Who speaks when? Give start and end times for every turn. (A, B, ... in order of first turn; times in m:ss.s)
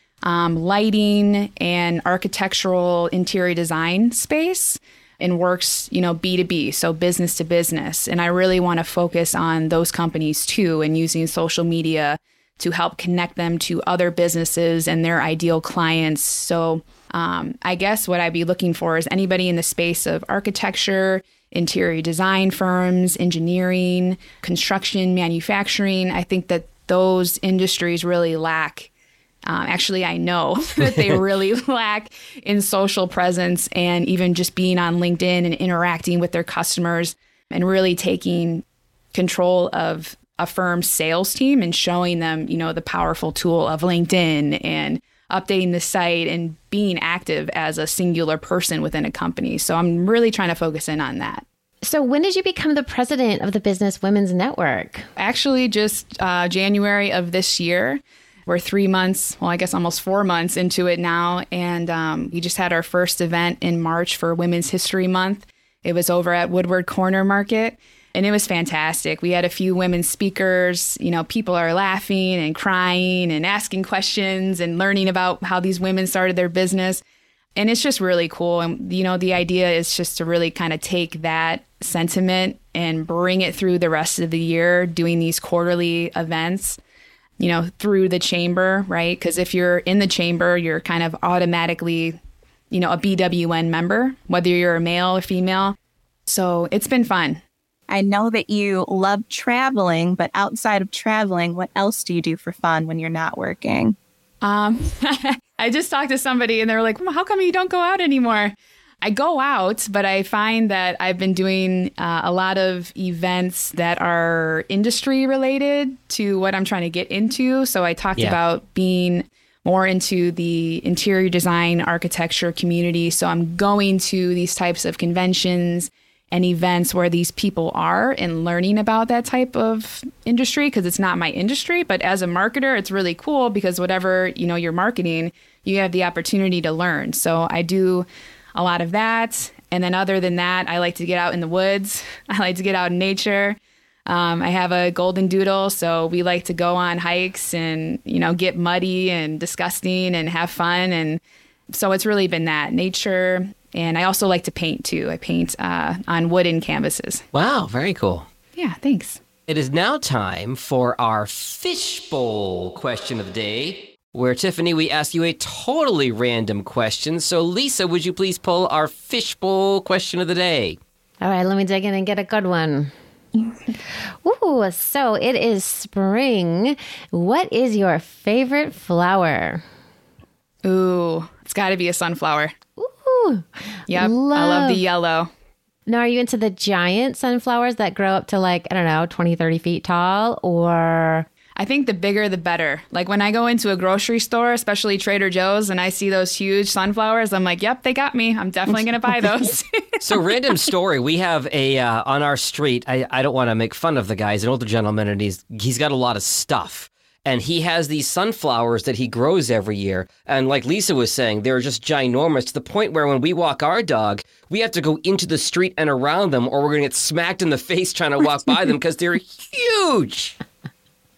0:00.2-0:28.9 A
0:29.4-0:51.4 A
0:51.8-0:55.1 B
0:55.2-1:17.0 A
1:17.6-1:26.8 A
1:27.4-1:32.2 A
1:32.7-1:35.8 A
1:36.3-1:37.4 A
1:37.9-1:44.0 C
1:44.4-2:31.2 A
2:31.7-2:37.2 A
2:37.3-2:38.3 D
2:38.6-2:39.2 A
2:39.5-2:50.8 D
2:51.2-2:52.9 B
2:54.2-2:59.6 B
3:00.6-3:02.5 A
3:02.8-3:04.8 B
3:03.9-3:05.3 A
3:05.9-3:11.3 B
3:11.6-3:19.8 A
3:20.0-3:40.4 D